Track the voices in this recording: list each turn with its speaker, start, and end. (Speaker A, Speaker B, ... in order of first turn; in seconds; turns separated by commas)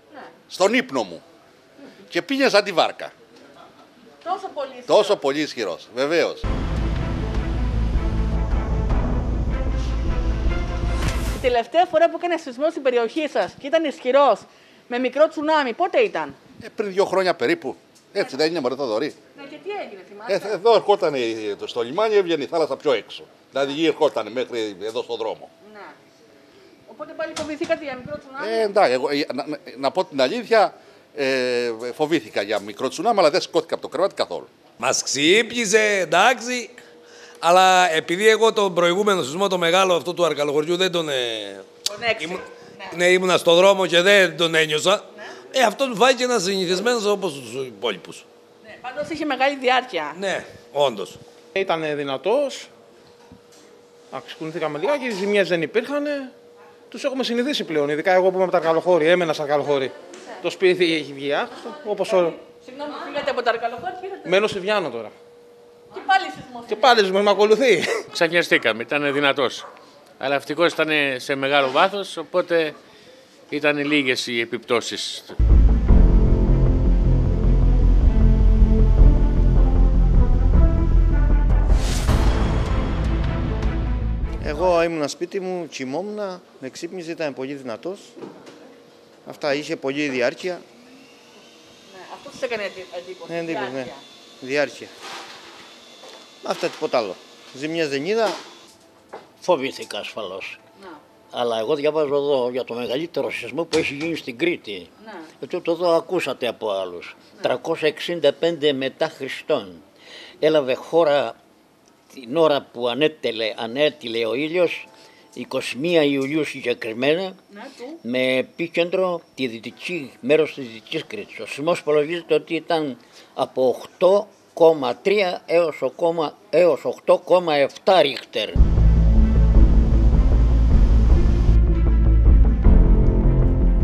Speaker A: 0.5-1.2, Speaker A: 2.1-3.1, Speaker B: 4.2-5.1, Speaker A: 4.9-6.4, Speaker B: 11.3-16.4, Speaker A: 16.6-19.2, Speaker B: 19.4-20.5, Speaker A: 20.3-25.5, Speaker B: 25.7-25.9, Speaker B: 26.9-28.7, Speaker A: 28.4-34.5, Speaker C: 34.8-36.7, Speaker C: 37.4-41.7, Speaker B: 41.9-42.4, Speaker C: 42.2-48.2, Speaker B: 48.7-50.2, Speaker C: 50.1-51.2, Speaker D: 51.6-52.7, Speaker D: 54.1-56.3, Speaker D: 56.9-59.9, Speaker D: 60.4-62.4, Speaker B: 62.0-64.4, Speaker D: 64.2-65.2, Speaker B: 65.9-67.2, Speaker D: 66.7-68.1, Speaker E: 68.1-69.7, Speaker E: 70.2-72.8, Speaker E: 73.5-75.3, Speaker F: 84.4-88.2, Speaker F: 89.3-90.6, Speaker B: 91.9-94.0, Speaker F: 93.3-94.9, Speaker F: 96.4-98.4, Speaker G: 99.4-100.5, Speaker G: 101.4-104.8, Speaker B: 105.0-105.3, Speaker G: 105.4-109.7, Speaker G: 110.4-111.3, Speaker G: 112.2-114.7, Speaker G: 115.4-117.3, Speaker B: 117.6-118.0, Speaker G: 118.1-128.5